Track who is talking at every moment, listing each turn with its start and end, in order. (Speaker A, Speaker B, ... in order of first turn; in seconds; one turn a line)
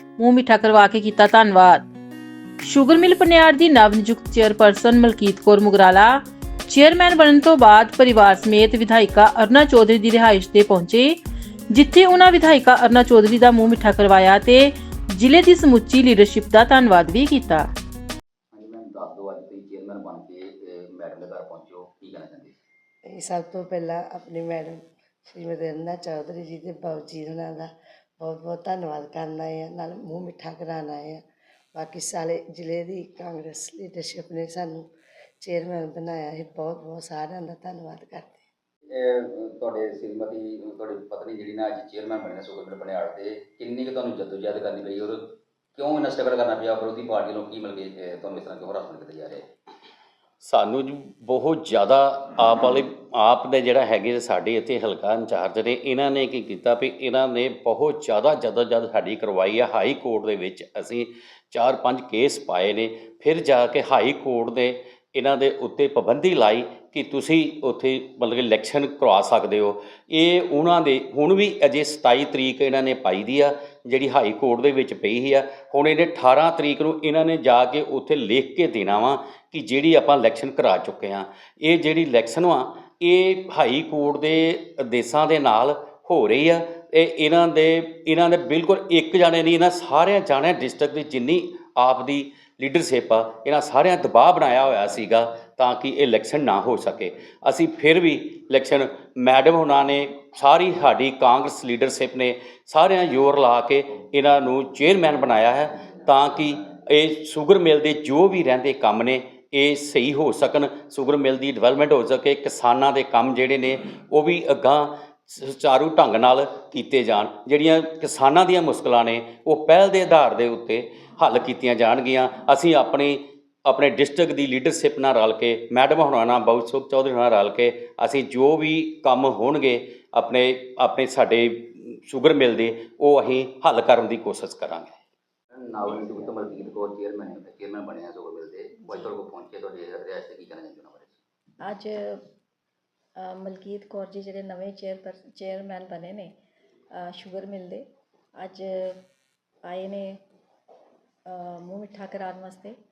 Speaker A: 0.2-1.8
Speaker A: 2.6-6.1
Speaker A: 6.7-11.1
Speaker A: 11.7-14.6
Speaker A: 15.2-17.6
Speaker B: 18.5-22.5
Speaker C: 23.1-31.2
Speaker C: 31.7-34.9
Speaker C: 35.4-38.4
Speaker B: 38.9-49.4
Speaker D: 50.4-134.9
Speaker B: 135.6-141.2
Speaker E: 141.6-142.2
Speaker E: 143.2-146.3
Speaker E: 146.9-149.0
Speaker E: 149.6-150.2
Speaker E: 151.2-152.8